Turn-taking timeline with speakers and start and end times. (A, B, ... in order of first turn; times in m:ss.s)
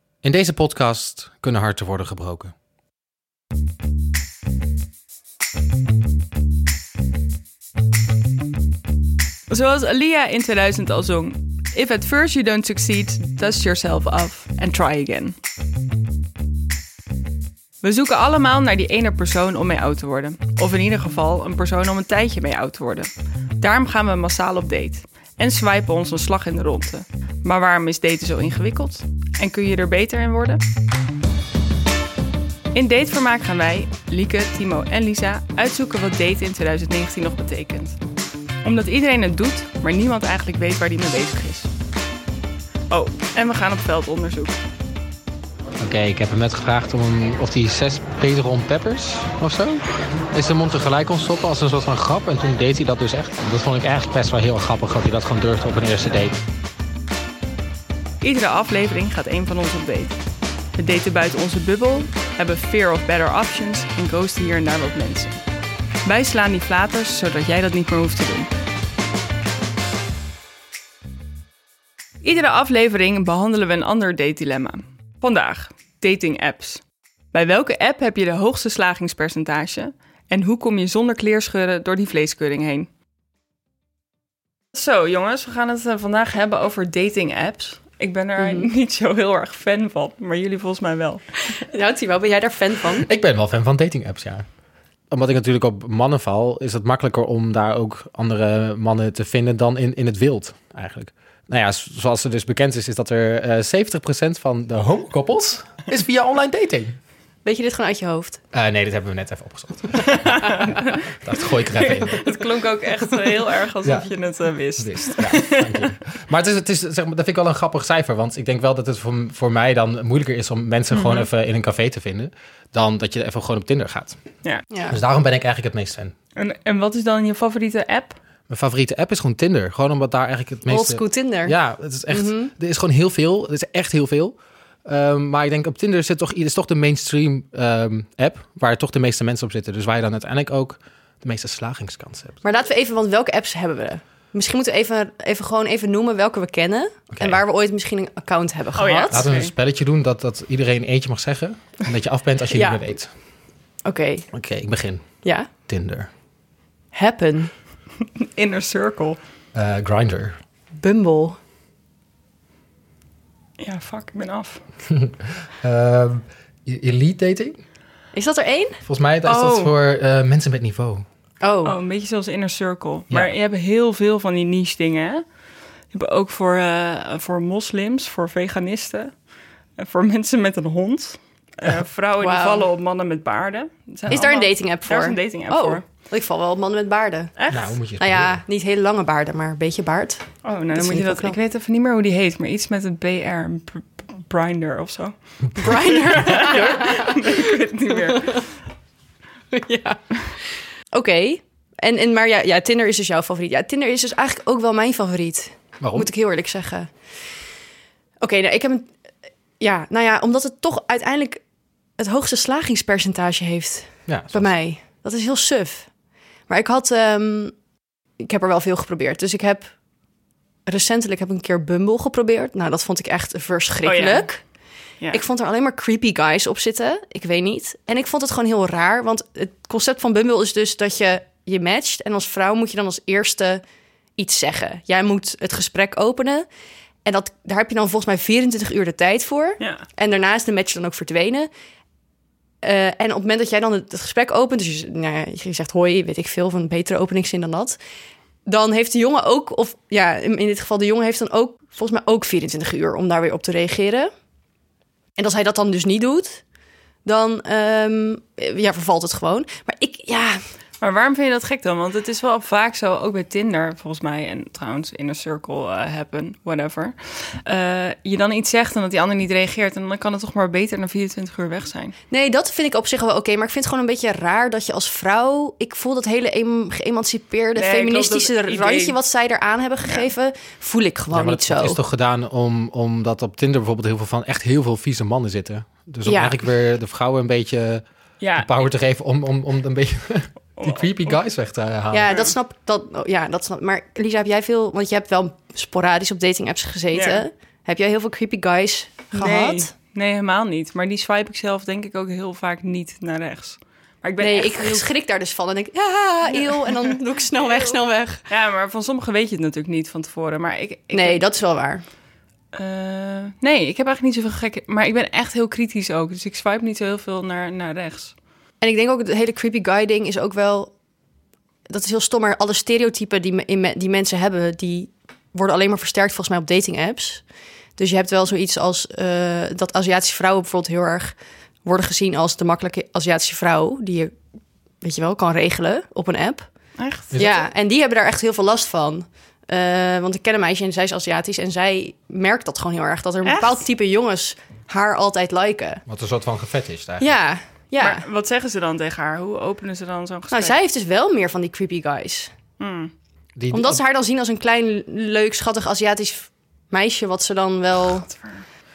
0:00.2-0:02.5 A
0:09.5-0:15.4 B
0:17.8-0:30.6 B
0:32.7-0:38.0 B
0:38.6-0:41.7 B
0:42.9-0:44.6 B
0:45.8-0:56.4 A
0:58.2-1:00.2 B
1:00.7-1:05.3 B
1:06.0-1:08.5 B
1:12.2-1:16.8 B
1:17.3-1:22.9 B
1:24.7-1:31.2 B
1:28.4-1:28.7 C
1:31.5-1:33.1 C
1:33.0-1:34.4 A
1:35.1-1:47.0 A
1:47.4-1:48.4 C
1:48.5-1:52.3 A
1:50.0-1:51.0 B
1:51.7-1:55.9 B
1:54.8-2:04.2 A
2:00.9-2:01.3 B
2:04.7-2:05.0 C
2:04.9-2:06.1 A
2:06.4-2:08.2 B
2:08.5-2:14.3 A
2:10.7-2:11.5 C
2:12.1-2:12.5 C
2:14.8-2:22.4 A
2:22.4-2:29.3 C
2:27.1-2:27.4 A
2:28.8-2:29.5 B
2:29.1-2:33.1 A
2:32.5-2:32.8 C
2:33.8-2:34.3 C
2:34.3-2:35.0 A
2:35.2-2:35.5 C
2:35.7-2:36.1 A
2:36.9-2:37.5 C
2:38.2-2:39.2 B
2:39.5-2:40.4 A
2:40.8-2:41.4 C
2:43.6-2:44.6 B
2:44.9-2:47.6 A
2:48.1-2:48.8 C
2:48.8-2:51.0 A
2:49.2-2:49.7 B
2:51.4-2:51.8 C
2:51.6-2:55.2 B
2:55.9-2:59.1 B
2:59.8-3:05.8 B
3:02.2-3:02.7 C
3:04.1-3:07.4 C
3:07.4-3:07.7 B
3:07.5-3:08.4 A
3:08.0-3:11.4 C
3:10.4-3:18.5 B
3:15.6-3:18.4 C
3:19.5-3:20.0 C
3:20.9-3:26.9 C
3:25.8-3:26.1 A
3:28.2-3:28.9 C
3:29.6-3:31.4 C
3:32.0-3:35.9 C
3:34.1-3:34.5 A
3:36.5-3:37.5 C
3:38.2-3:39.7 C
3:40.7-3:44.4 C
3:43.8-3:44.3 B
3:45.1-3:53.6 C
3:54.2-3:56.5 C
3:57.0-4:01.5 C
3:59.6-3:59.8 B
4:02.6-4:07.8 C
4:08.4-4:14.1 C
4:15.2-4:16.4 C
4:17.0-4:20.4 C
4:20.8-4:31.9 B
4:32.1-4:41.8 C
4:37.6-4:39.0 B
4:41.1-4:47.8 A
4:46.0-4:46.4 C
4:48.2-4:48.5 B
4:48.3-4:52.1 A
4:50.6-4:51.1 B
4:51.9-4:59.7 C
4:52.1-4:52.3 B
4:56.9-4:57.2 B
4:59.1-5:04.9 B
5:04.2-5:08.2 C
5:06.3-5:07.8 B
5:08.3-5:11.2 B
5:10.9-5:11.8 C
5:12.5-5:18.1 B
5:18.6-5:20.7 C
5:21.7-5:27.2 C
5:27.8-5:34.1 C
5:34.8-5:36.5 C
5:36.8-5:37.1 B
5:37.1-5:37.4 A
5:37.1-5:45.8 C
5:43.2-5:43.6 B
5:45.9-5:47.2 A
5:47.0-5:48.0 C
5:47.8-5:50.5 B
5:50.3-5:52.3 C
5:52.6-5:52.9 B
5:53.4-5:53.8 A
5:53.5-5:58.0 C
5:57.9-5:58.4 B